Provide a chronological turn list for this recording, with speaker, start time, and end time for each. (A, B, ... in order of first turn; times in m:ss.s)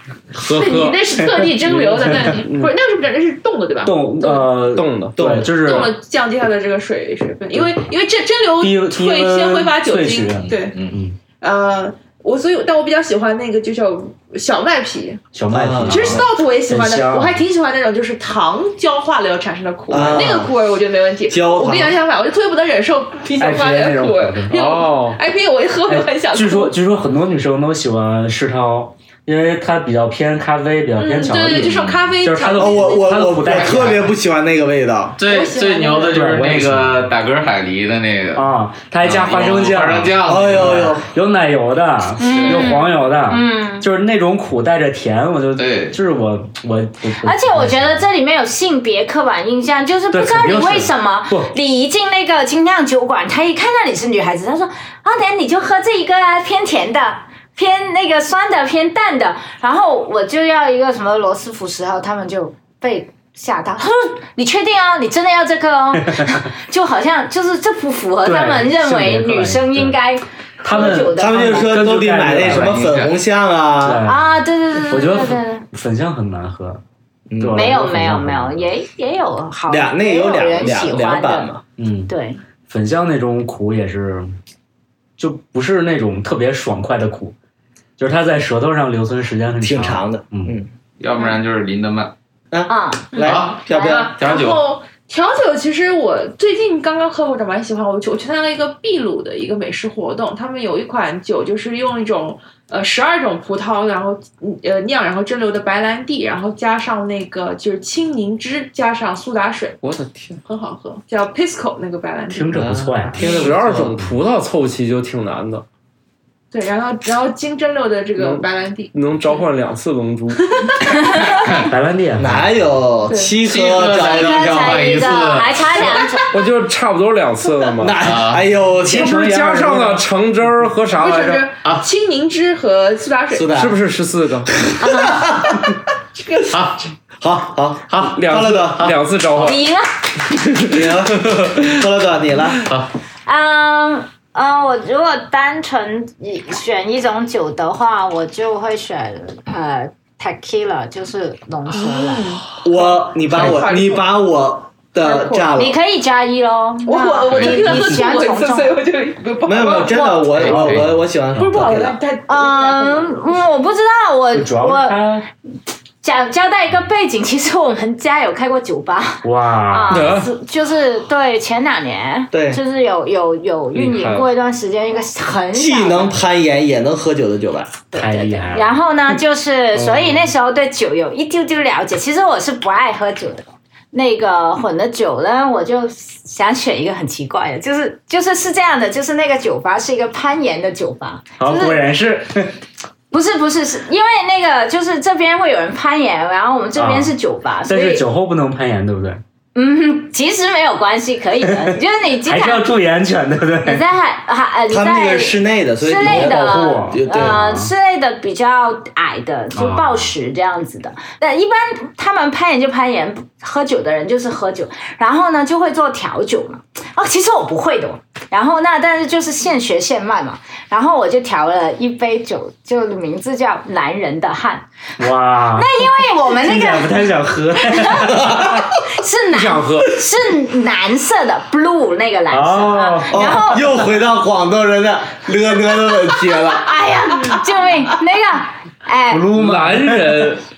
0:00.3-0:01.0 A
0:00.4-0:04.6 B
0:01.2-0:02.5 C
0:01.6-0:02.7 A
0:03.8-0:05.9 C
0:04.7-0:05.2 A
0:05.2-0:05.5 D
0:05.6-0:10.8 B
0:08.6-0:11.2 C
0:10.4-0:11.0 E
0:11.4-0:15.2 B
0:15.3-0:17.4 C
0:15.5-0:16.2 D
0:15.9-0:26.7 B
0:19.9-0:20.5 D
0:20.0-0:20.3 C
0:21.3-0:22.0 D
0:23.3-0:24.5 C
0:24.5-0:25.2 A
0:25.9-0:34.1 C
0:31.0-0:33.4 B
0:31.5-0:32.1 E
0:32.6-0:35.2 D
0:35.2-0:38.5 E
0:35.2-0:36.2 B
0:36.1-0:37.1 C
0:38.3-0:48.0 C
0:39.0-0:40.9 E
0:40.2-0:41.0 D
0:42.2-0:43.9 F
0:42.2-0:42.8 E
0:45.6-0:46.0 E
0:47.2-1:11.8 F
0:50.1-0:51.5 C
1:08.2-1:10.0 C
1:10.6-1:12.8 C
1:10.8-1:14.0 D
1:12.4-1:13.1 E
1:13.8-1:16.8 C
1:14.0-1:15.6 F
1:17.3-1:17.7 D
1:17.4-1:18.7 C
1:17.5-1:21.5 F
1:19.7-1:21.6 D
1:21.8-1:22.1 C
1:22.1-1:22.4 F
1:22.7-1:24.3 C
1:25.2-1:27.3 C
1:28.0-1:30.6 C
1:29.6-1:30.7 D
1:31.0-1:32.1 E
1:32.5-1:34.1 D
1:32.7-1:33.2 F
1:33.1-1:49.8 B
1:33.2-1:33.6 E
1:34.2-1:34.6 E
1:49.8-1:50.4 A
1:50.5-1:52.5 B
1:52.3-1:53.4 C
1:52.5-1:53.9 D
1:53.2-1:55.6 A
1:56.5-1:59.4 B
1:58.2-2:00.5 A
2:01.7-2:02.6 C
2:02.2-2:04.6 D
2:03.1-2:03.4 B
2:03.4-2:06.0 E
2:04.1-2:06.2 F
2:05.8-2:06.3 B
2:06.3-2:08.0 A
2:07.8-2:09.1 D
2:08.0-2:08.4 E
2:08.8-2:10.0 C
2:08.9-2:11.4 A
2:10.9-2:13.5 B
2:13.3-2:13.8 D
2:13.5-2:14.5 A
2:14.7-2:15.7 D
2:14.8-2:15.3 F
2:16.1-2:16.6 B
2:16.5-2:16.9 E
2:17.2-2:18.9 D
2:17.9-2:18.2 E
2:18.1-2:19.6 A
2:18.8-2:19.5 E
2:19.4-2:19.9 F
2:20.4-2:21.6 A
2:20.7-2:22.6 D
2:23.2-2:32.3 F
2:31.7-2:34.1 B
2:32.6-2:35.8 D
2:35.0-2:35.5 B
2:35.5-2:38.8 F
2:36.8-2:40.5 B
2:37.3-2:37.9 E
2:39.4-2:42.0 D
2:40.4-2:40.9 E
2:40.5-2:40.9 C
2:41.4-2:43.3 B
2:42.3-2:45.0 F
2:44.3-2:45.2 C
2:46.0-2:56.2 F
2:49.2-2:50.1 C
2:49.9-2:50.3 A
2:52.3-2:52.6 D
2:53.7-2:54.3 A
2:55.5-2:57.8 D
2:57.9-3:11.8 F
2:57.9-2:58.7 C
2:59.8-3:00.2 C
3:11.4-3:12.5 C
3:13.1-3:18.0 F
3:16.7-3:17.1 C
3:17.6-3:19.2 C
3:19.5-3:22.7 F
3:21.4-3:23.8 C
3:23.6-3:53.7 F
3:24.7-3:27.4 D
3:26.0-3:27.7 C
3:29.5-3:30.1 C
3:45.0-3:48.5 C
3:48.0-3:48.5 D
3:49.3-3:49.9 A
3:52.3-3:53.8 C
3:53.1-3:57.3 D
3:55.9-3:59.3 F
3:59.1-4:00.3 C
3:59.3-4:00.4 A